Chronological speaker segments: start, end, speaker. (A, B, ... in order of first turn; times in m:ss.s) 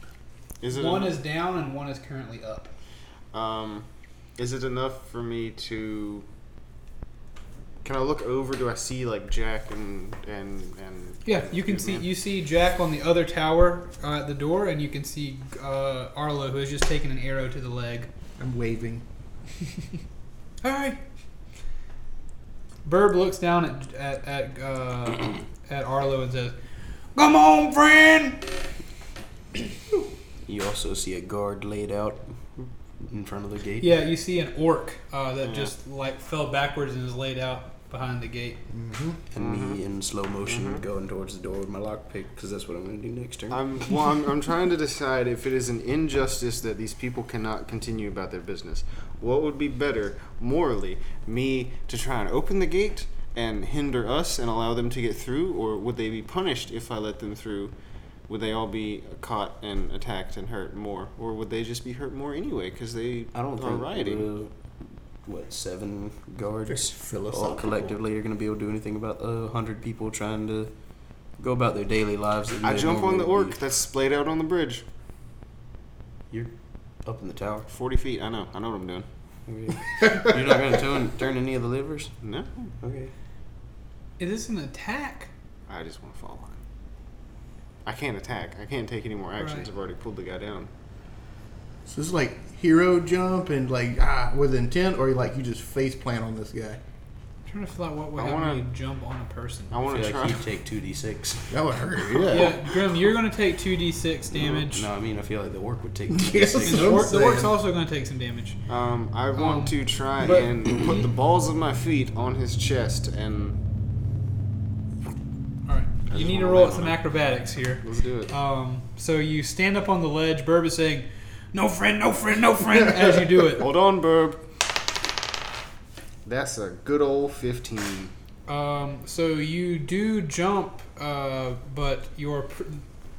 0:00.6-0:01.2 A
0:00.7-0:02.7 B
0:03.3-0:03.9 A
0:04.4-0:06.3 A
0:07.8-0:12.1 A
0:11.2-0:18.1 B
0:18.4-0:19.0 C
0:20.6-0:21.0 B
0:22.8-0:26.6 B
0:27.2-0:28.4 B
0:30.5-0:32.2 D
0:33.0-0:34.0 D
0:33.8-0:38.6 B
0:35.4-0:35.7 A
0:38.7-0:39.2 C
0:39.3-0:43.8 D
0:39.4-0:39.8 A
0:40.4-0:40.8 A
0:43.5-0:57.7 A
0:58.3-1:04.3 A
1:03.3-1:10.7 D
1:06.7-1:08.0 C
1:11.4-1:13.6 D
1:12.6-1:14.8 A
1:17.0-1:17.7 D
1:17.7-1:19.1 A
1:19.5-1:22.2 D
1:22.2-1:22.5 A
1:22.8-1:23.1 D
1:24.2-1:25.3 B
1:25.7-1:26.6 A
1:27.8-1:30.7 A
1:29.4-1:29.7 B
1:31.9-1:36.8 C
1:37.5-1:39.8 B
1:38.2-1:38.7 A
1:39.7-1:40.4 A
1:39.9-1:42.1 D
1:41.5-1:42.6 C
1:42.3-1:44.9 B
1:44.5-1:47.4 D
1:46.1-1:47.5 C
1:46.6-1:48.6 B
1:48.7-1:53.6 A
1:49.3-1:51.0 B
1:55.7-2:03.7 B
1:56.1-1:57.0 A
1:57.8-1:58.3 A
2:03.5-2:04.4 A
2:06.2-2:08.1 A
2:08.5-2:12.8 B